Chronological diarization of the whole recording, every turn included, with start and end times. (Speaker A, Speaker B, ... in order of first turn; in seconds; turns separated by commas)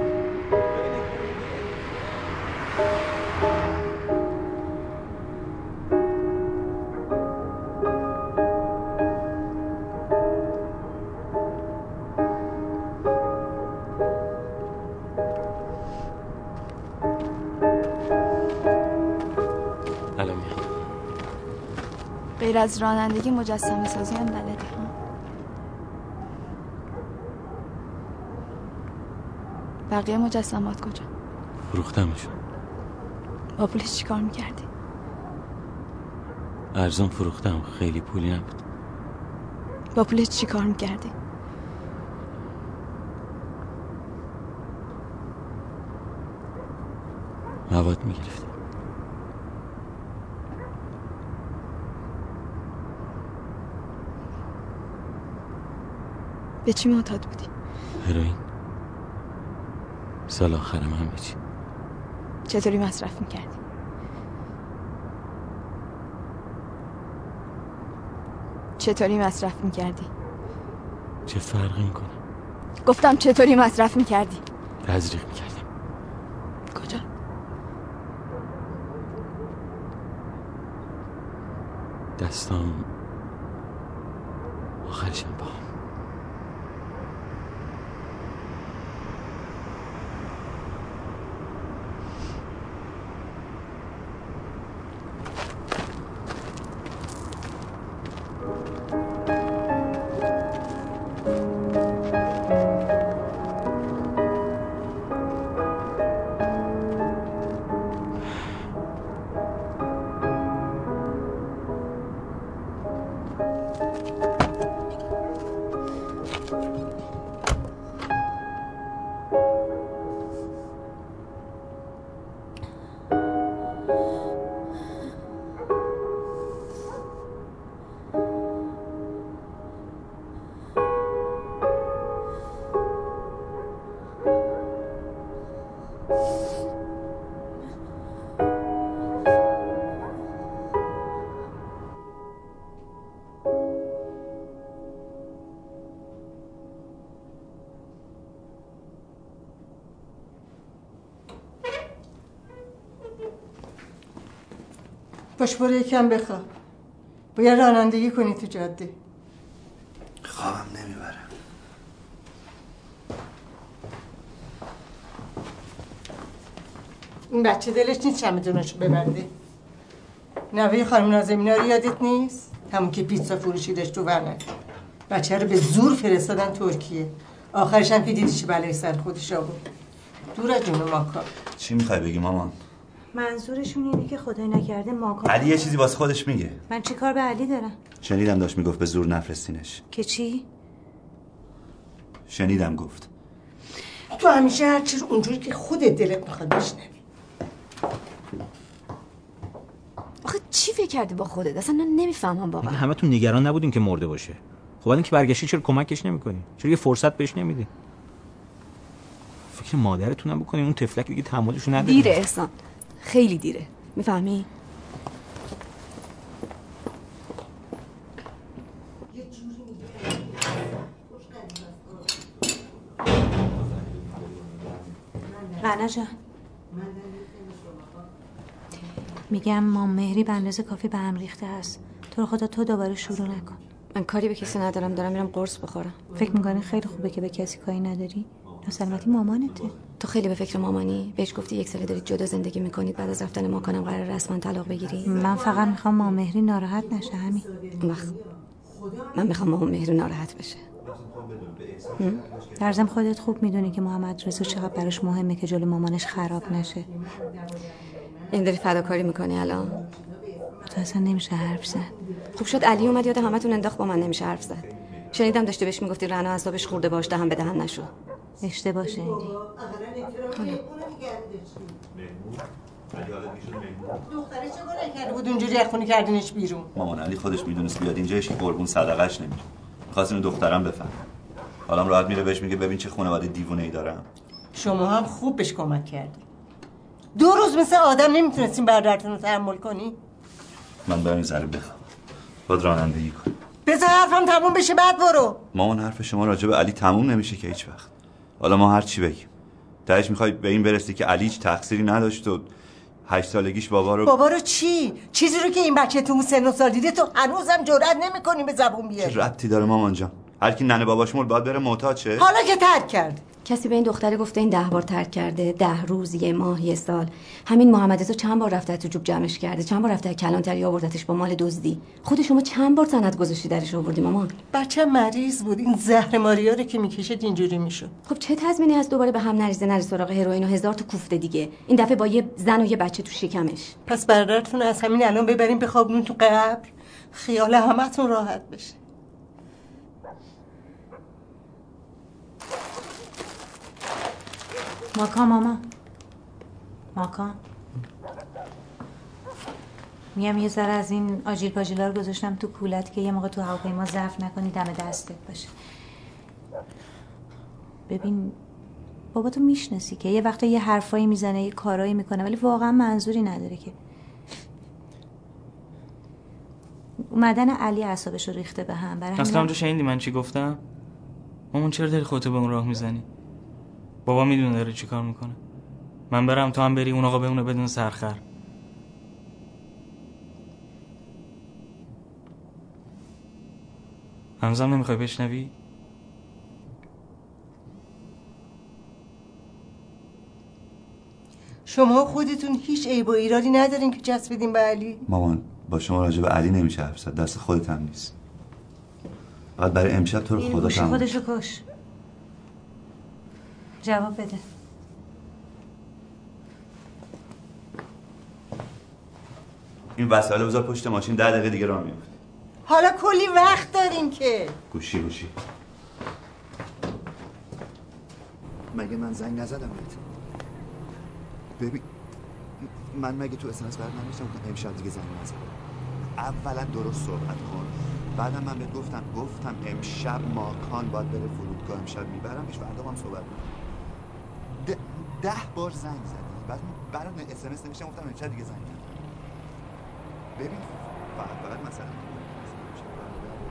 Speaker A: 0.7-1.6, Speaker A: 20.2-20.6, Speaker B: 22.4-24.9, Speaker B: 29.9-31.1, Speaker A: 31.7-32.4, Speaker B: 33.6-34.7, Speaker A: 36.7-38.5, Speaker B: 40.0-41.1, Speaker A: 47.7-48.5, Speaker B: 56.6-57.5, Speaker A: 58.0-58.4, Speaker A: 60.3-61.4, Speaker B: 62.5-63.6, Speaker B: 68.8-70.1, Speaker A: 71.3-72.2, Speaker B: 72.8-74.4, Speaker A: 74.8-75.7, Speaker B: 76.7-77.0, Speaker A: 82.2-82.9, Speaker A: 84.8-85.7, Speaker C: 155.4-156.5, Speaker C: 157.3-158.9, Speaker D: 160.2-161.3, Speaker C: 167.3-169.3, Speaker C: 170.5-174.4, Speaker C: 175.1-179.6, Speaker C: 180.3-181.3, Speaker D: 181.6-182.6, Speaker E: 183.1-185.6, Speaker D: 185.2-186.6, Speaker E: 186.7-187.8, Speaker D: 188.0-189.8, Speaker E: 189.9-190.5, Speaker D: 192.3-193.1, Speaker C: 194.1-197.0, Speaker F: 200.2-202.8, Speaker G: 202.6-207.7, Speaker G: 209.5-212.2, Speaker F: 211.8-214.5, Speaker C: 219.1-222.1, Speaker D: 223.5-225.0, Speaker C: 225.2-225.9, Speaker E: 225.6-226.1, Speaker C: 226.7-228.1, Speaker E: 229.3-233.6, Speaker F: 233.9-236.0, Speaker C: 236.1-237.4, Speaker E: 236.2-239.8, Speaker D: 238.5-239.8, Speaker F: 240.0-245.3, Speaker C: 244.8-249.2, Speaker E: 245.1-247.5, Speaker F: 247.8-248.1, Speaker F: 249.1-250.6, Speaker D: 250.8-252.7, Speaker F: 252.0-252.2, Speaker E: 252.6-256.9, Speaker C: 254.3-254.8, Speaker C: 255.9-258.8, Speaker F: 258.3-259.8, Speaker C: 259.5-262.9, Speaker E: 260.7-261.9, Speaker F: 262.4-267.9, Speaker D: 264.7-264.9, Speaker E: 268.4-269.3, Speaker C: 268.8-271.8, Speaker D: 271.9-274.0, Speaker C: 274.1-276.7, Speaker D: 276.8-281.0, Speaker D: 281.7-284.1, Speaker C: 284.6-286.2, Speaker C: 287.1-290.0, Speaker D: 290.9-291.9, Speaker D: 292.5-293.3, Speaker C: 293.7-295.4, Speaker D: 295.5-297.9, Speaker D: 298.4-299.3, Speaker D: 299.9-302.5, Speaker D: 303.1-304.1, Speaker C: 304.1-309.3, Speaker D: 309.0-312.3, Speaker C: 312.2-313.2, Speaker F: 313.4-324.4, Speaker C: 324.5-327.9, Speaker F: 328.1-333.8, Speaker C: 333.9-338.8, Speaker E: 344.9-345.6, Speaker E: 346.9-347.4, Speaker E: 350.1-355.5, Speaker E: 357.9-358.4, Speaker E: 359.1-363.7, Speaker E: 367.1-369.5, Speaker H: 369.2-370.6, Speaker H: 371.5-373.1, Speaker H: 374.1-375.4, Speaker H: 376.1-378.2, Speaker H: 384.4-385.5, Speaker C: 391.7-395.0, Speaker D: 395.1-398.1, Speaker D: 399.6-401.2, Speaker E: 400.4-401.6, Speaker E: 403.8-404.4, Speaker D: 410.0-412.1, Speaker C: 412.7-414.6, Speaker D: 414.7-415.3, Speaker D: 418.8-419.8, Speaker D: 422.9-425.3, Speaker D: 426.2-433.3, Speaker D: 435.4-438.7, Speaker D: 440.4-440.6, Speaker D: 441.2-443.1